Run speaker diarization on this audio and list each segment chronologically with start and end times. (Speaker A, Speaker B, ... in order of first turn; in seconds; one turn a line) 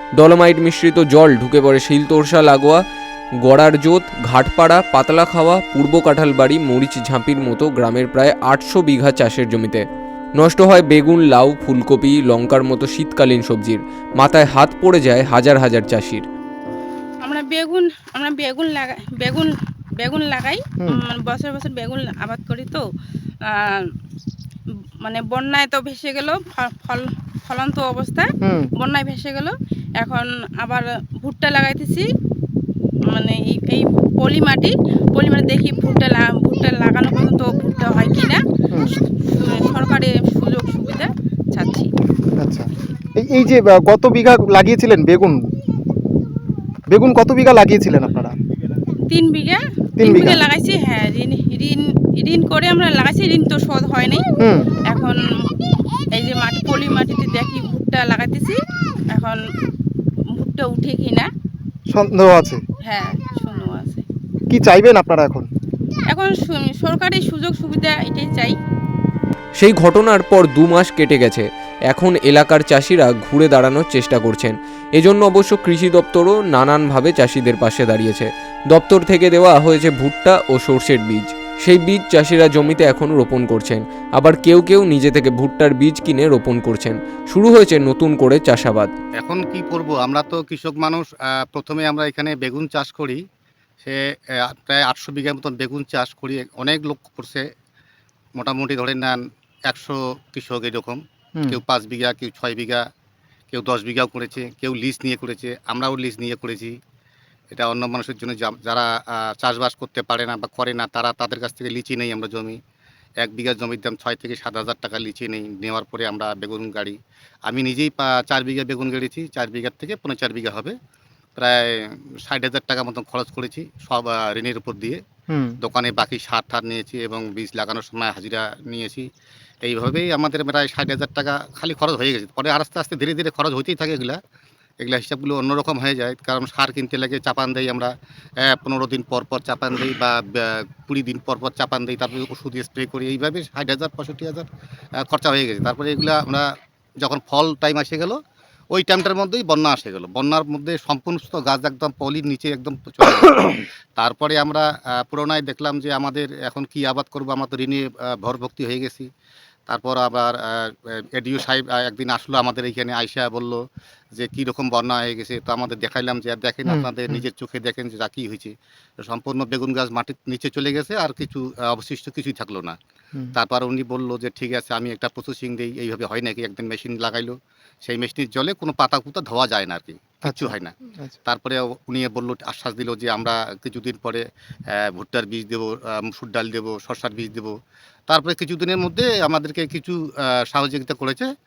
Speaker A: 0.2-2.8
Speaker A: 3.4-9.8
Speaker A: 10.4-16.2
Speaker B: 17.2-22.8
Speaker B: 23.4-23.9
Speaker B: 25.0-32.0
Speaker C: 28.4-28.7
Speaker B: 33.1-38.4
Speaker C: 38.7-39.0
Speaker B: 39.2-41.9
Speaker C: 42.4-45.5
Speaker C: 46.9-48.3
Speaker B: 49.1-54.2
Speaker C: 50.0-50.4
Speaker C: 54.4-54.7
Speaker B: 54.9-55.2
Speaker B: 56.2-58.6
Speaker B: 59.1-59.4
Speaker B: 60.4-61.3
Speaker C: 61.9-62.6
Speaker B: 62.8-64.0
Speaker C: 64.5-65.5
Speaker B: 66.1-68.5
Speaker A: 69.6-88.9
Speaker D: 89.2-93.2
Speaker D: 93.8-97.4
Speaker D: 98.4-102.8
Speaker D: 103.5-106.8
Speaker D: 107.5-112.6
Speaker D: 113.2-120.8
Speaker D: 121.4-125.0
Speaker C: 125.3-125.5
Speaker D: 125.6-129.1
Speaker D: 129.6-134.2
Speaker D: 134.8-137.9
Speaker D: 138.4-144.5
Speaker D: 145.0-146.5
Speaker D: 147.0-148.2
Speaker D: 148.7-159.1
Speaker D: 159.7-163.6
Speaker D: 164.2-172.8
Speaker C: 166.7-167.2
Speaker D: 173.3-184.2
Speaker C: 180.2-181.1
Speaker D: 184.8-187.5
Speaker D: 188.1-191.3